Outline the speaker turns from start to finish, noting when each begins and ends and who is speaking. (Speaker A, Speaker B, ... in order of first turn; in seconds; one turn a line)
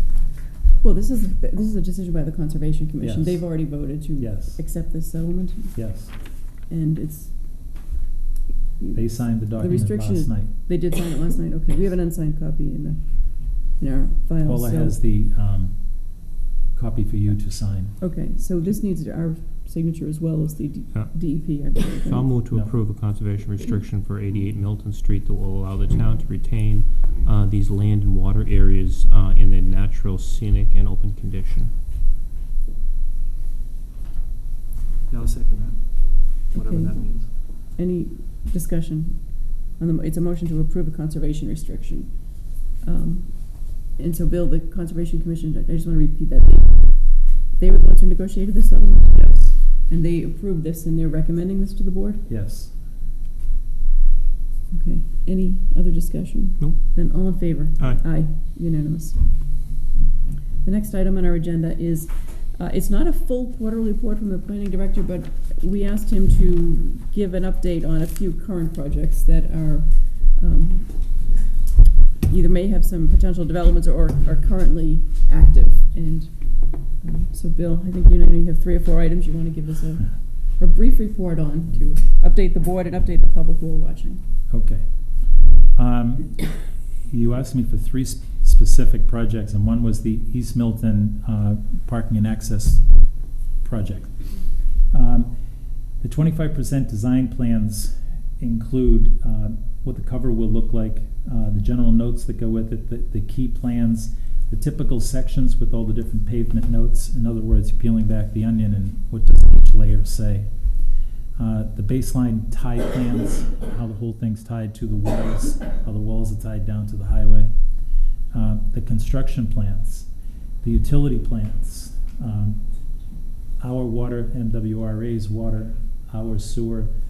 Speaker A: 0.8-7.9
Speaker B: 3.0-4.6
Speaker B: 5.8-6.2
Speaker A: 8.8-15.0
Speaker B: 8.9-10.5
Speaker B: 14.4-15.9
Speaker B: 16.7-17.9
Speaker A: 18.0-22.4
Speaker C: 20.9-31.7
Speaker D: 35.1-37.3
Speaker A: 36.5-52.2
Speaker B: 49.1-49.5
Speaker B: 52.3-52.7
Speaker A: 54.7-59.2
Speaker C: 56.6-58.0
Speaker A: 60.6-71.3
Speaker A: 72.3-84.2
Speaker B: 84.5-85.1
Speaker B: 85.7-92.9
Speaker B: 93.6-95.3
Speaker B: 96.0-110.5
Speaker B: 111.4-117.5
Speaker B: 118.3-120.1
Speaker B: 120.6-122.6
Speaker B: 123.6-126.9